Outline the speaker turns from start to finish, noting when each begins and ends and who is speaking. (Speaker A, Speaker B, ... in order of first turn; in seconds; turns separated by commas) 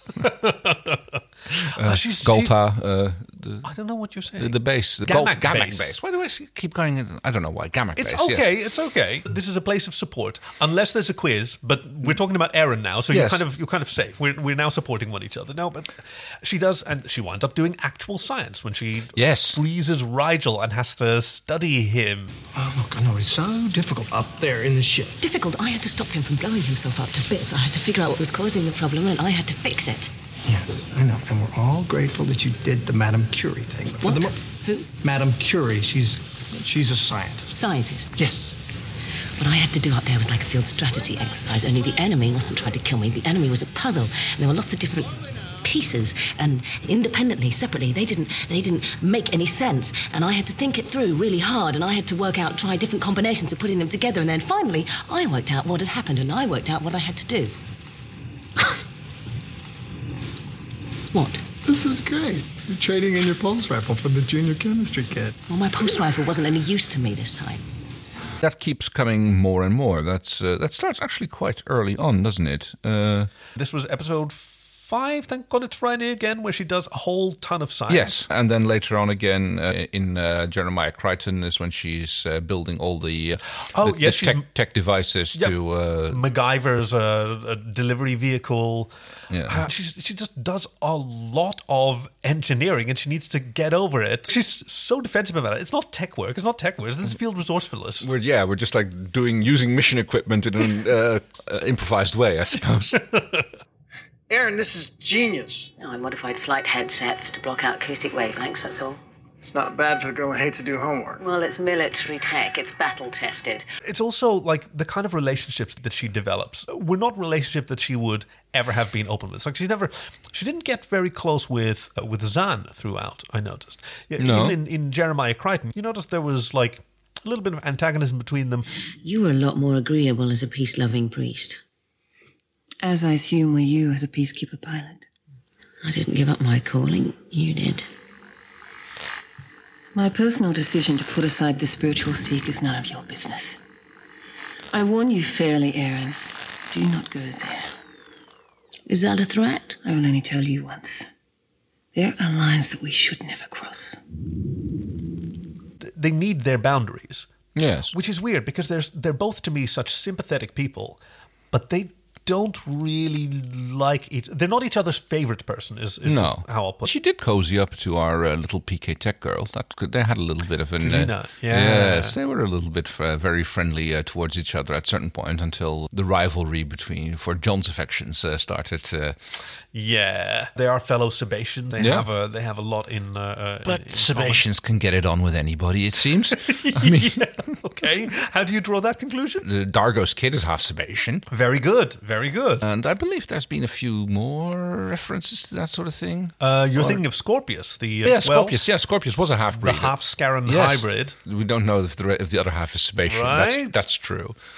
Speaker A: 0.2-2.6, Speaker B: 1.6-3.7, Speaker A: 3.6-5.9, Speaker B: 4.4-8.5, Speaker A: 8.0-22.3, Speaker B: 13.1-13.5, Speaker B: 19.1-19.6, Speaker C: 22.5-25.1, Speaker D: 25.2-30.1, Speaker C: 30.4-34.4, Speaker D: 34.0-34.9, Speaker C: 35.0-37.5, Speaker D: 37.5-38.1, Speaker C: 38.2-38.5, Speaker D: 39.4-57.6, Speaker D: 61.1-61.4, Speaker C: 61.6-65.4, Speaker D: 65.5-67.6, Speaker B: 68.4-73.3, Speaker A: 73.5-78.2, Speaker B: 77.9-86.2, Speaker A: 83.8-84.5, Speaker A: 86.1-88.9, Speaker B: 89.3-89.7, Speaker A: 89.5-98.1, Speaker B: 98.0-103.0, Speaker A: 103.1-103.4, Speaker C: 104.3-105.7, Speaker D: 105.8-109.0, Speaker C: 109.4-111.2, Speaker D: 111.2-113.7, Speaker A: 113.8-128.7, Speaker B: 124.2-124.6, Speaker D: 129.0-131.6, Speaker E: 132.8-135.0, Speaker D: 135.8-137.9, Speaker E: 139.9-143.6, Speaker E: 144.7-146.2, Speaker E: 146.7-147.7, Speaker D: 148.9-149.8, Speaker E: 149.8-151.1, Speaker E: 151.9-154.0, Speaker A: 155.8-157.3, Speaker B: 157.6-157.9, Speaker A: 157.9-161.0, Speaker A: 161.5-166.9, Speaker B: 166.1-179.2, Speaker A: 170.8-172.2, Speaker A: 179.7-184.4, Speaker B: 181.8-182.1, Speaker B: 183.7-187.2, Speaker A: 186.4-189.5, Speaker B: 189.4-191.2, Speaker A: 191.3-192.7, Speaker B: 192.6-197.0, Speaker A: 196.4-198.6, Speaker B: 198.0-204.4, Speaker A: 199.6-201.2, Speaker A: 203.1-203.8